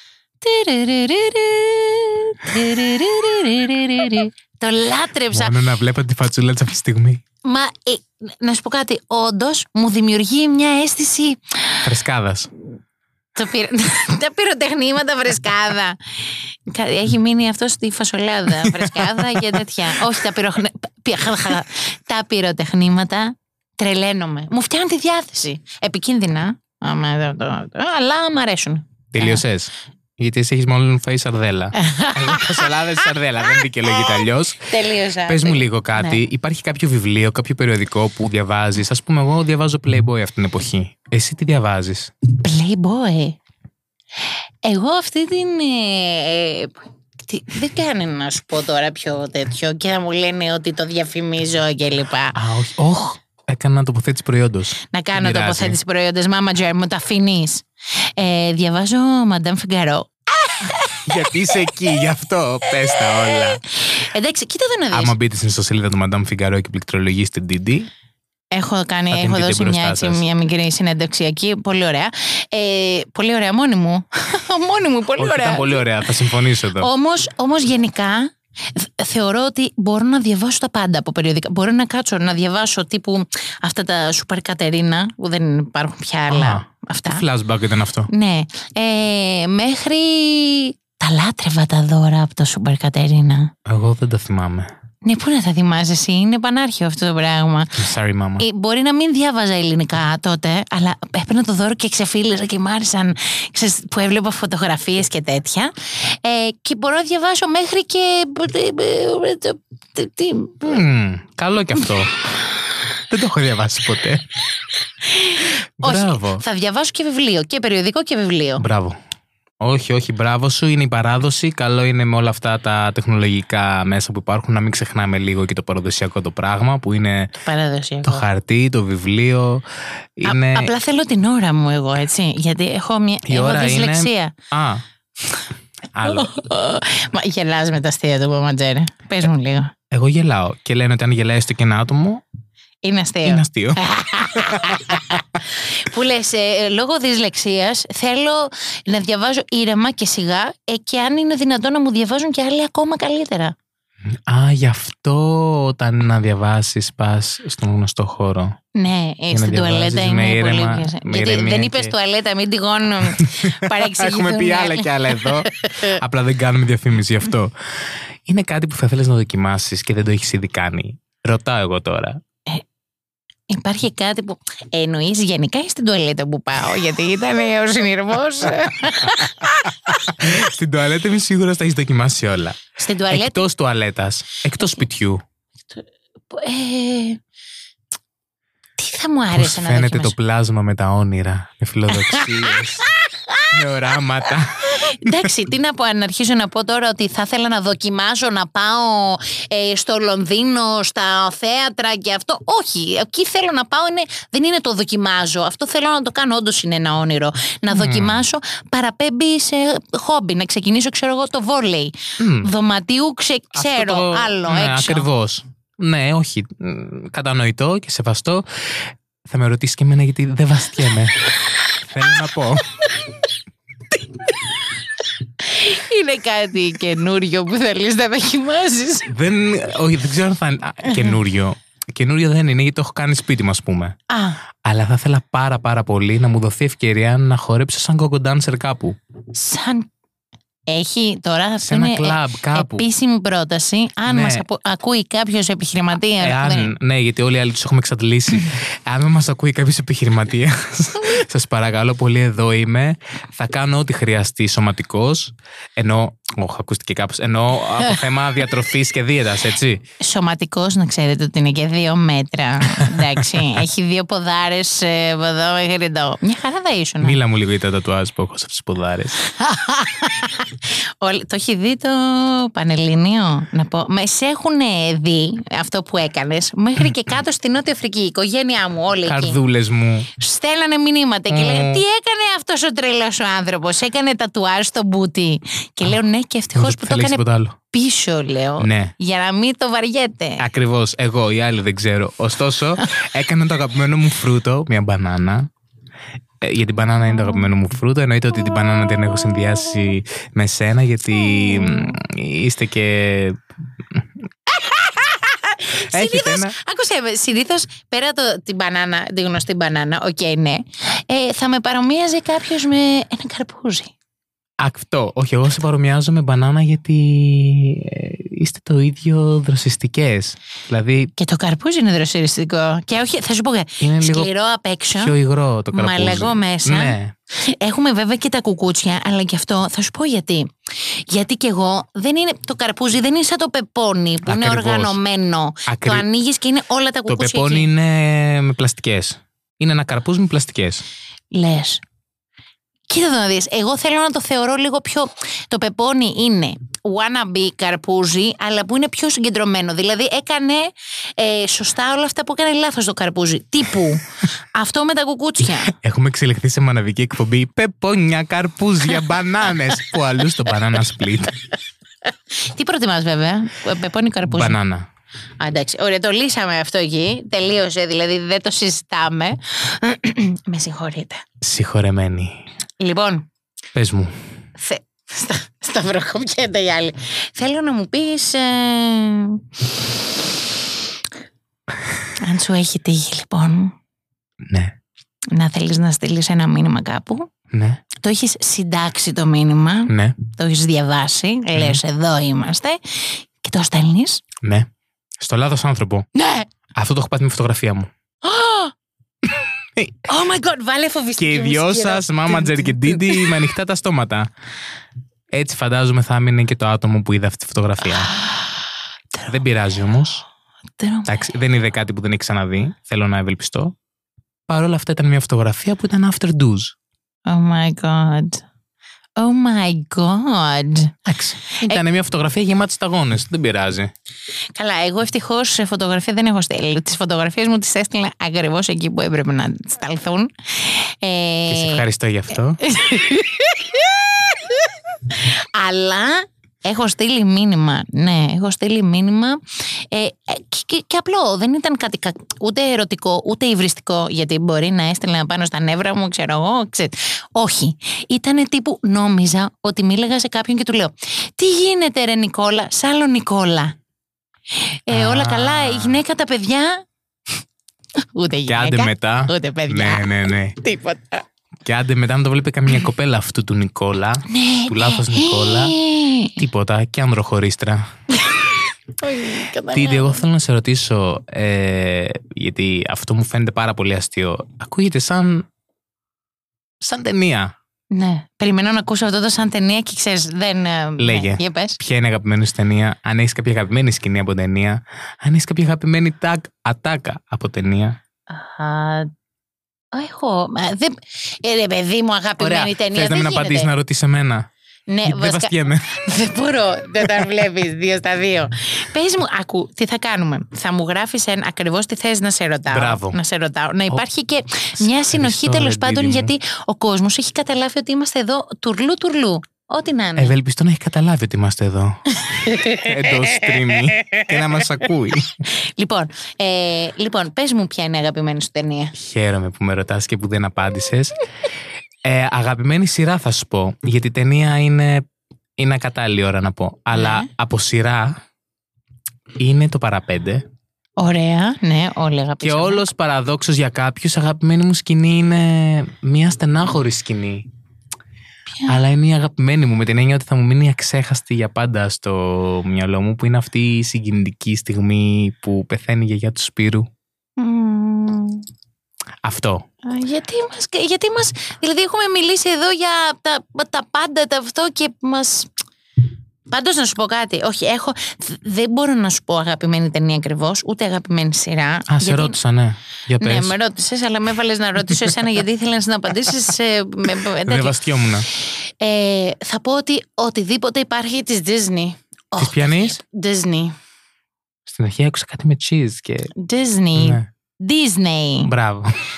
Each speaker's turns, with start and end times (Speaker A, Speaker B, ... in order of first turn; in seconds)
Speaker A: 0.4-5.5, 7.4-11.9, 13.3-16.0, 16.7-29.4, 31.8-32.7, 33.8-36.2, 42.4-43.4, 44.6-52.4, 54.9-57.6, 58.2-61.1, 62.9-65.1, 68.5-75.8, 76.8-87.2, 88.1-93.5, 95.0-97.8, 98.4-110.8, 115.0-118.7, 127.4-128.2, 130.2-134.3, 136.0-139.7, 142.8-153.5, 158.7-166.0, 173.5-180.1, 182.8-183.5, 185.7-187.2, 188.8-190.1, 191.9-193.5, 194.8-215.1, 224.2-224.6, 225.4-229.1, 230.8-231.2, 234.1-234.4, 239.3-239.9, 240.7-246.7, 260.0-267.2, 269.2-279.4, 280.2-290.4, 301.3-301.9, 304.5-313.9, 321.1-325.1, 325.7-337.7, 341.3-341.8, 342.9-355.7, 362.4-364.6, 365.4-371.2, 372.8-373.3, 374.6-380.3, 382.2-383.7, 385.3-387.3, 388.0-394.2, 396.1-396.5, 398.2-398.7, 400.1-403.4, 407.9-409.2, 410.8-411.2, 417.3-418.4, 419.2-420.9, 424.6-431.8, 432.6-453.7, 454.6-456.8, 458.1-461.2, 464.3-466.3, 468.1-470.2, 477.9-481.8, 488.3-489.1, 489.9-493.7, 494.9-510.4, 512.2-513.0, 513.7-514.2, 515.5-518.9, 526.9-527.3, 531.0-532.8, 547.4-548.5, 549.8-555.5, 556.5-562.4, 563.2-567.8, 568.4-573.7, 576.4-578.5
Speaker B: 5.3-7.2, 11.8-12.5, 18.6-19.6, 29.1-42.1, 52.3-55.8, 61.1-63.6, 64.9-67.9, 69.1-70.2, 75.2-76.9, 86.3-88.1, 93.7-94.7, 97.8-98.5, 110.6-112.1, 113.1-114.2, 115.8-116.4, 118.6-119.0, 119.6-127.3, 128.0-129.6, 130.2-130.7, 133.3-134.8, 135.9-136.3, 139.9-142.2, 143.2-145.0, 154.3-158.6, 159.3-161.9, 163.1-167.5, 168.3-172.2, 179.9-182.6, 183.1-185.2, 189.3-192.9, 193.5-195.3, 207.7-208.2, 212.2-212.5, 213.5-218.4, 219.2-221.3, 221.8-222.8, 229.1-233.9, 234.6-238.9, 241.6-242.9, 244.1-244.4, 246.2-259.8, 267.0-269.2, 279.0-280.1, 281.3-281.8, 286.5-287.6, 288.6-288.9, 290.4-295.5, 296.4-303.4, 305.8-306.6, 314.6-321.1, 323.8-324.3, 325.0-327.1, 334.2-335.0, 335.7-336.1, 337.1-340.8, 355.7-361.3, 364.2-364.9, 371.4-372.4, 373.7-374.1, 384.5-384.8, 387.5-387.8, 389.9-390.2, 391.5-391.8, 394.4-394.7, 395.2-396.1, 396.7-397.9, 399.8-400.0, 401.2-404.3, 405.3-408.1, 409.2-410.2, 411.1-413.7, 414.5-416.7, 421.1-423.9, 431.5-432.6, 454.9-456.0, 458.5-460.6, 461.6-465.8, 466.4-467.9, 469.7-475.4, 476.8-477.5, 481.0-488.0, 492.4-494.5, 495.0-496.0, 502.7-503.2, 504.8-506.3, 510.2-515.4, 518.9-521.2, 522.0-525.0, 525.6-528.2, 529.4-530.4, 532.4-537.5, 538.7-546.9, 549.2-549.6, 561.9-563.5, 567.5-568.3, 572.4-573.0, 574.7-576.3, 577.0-577.2, 578.5-578.9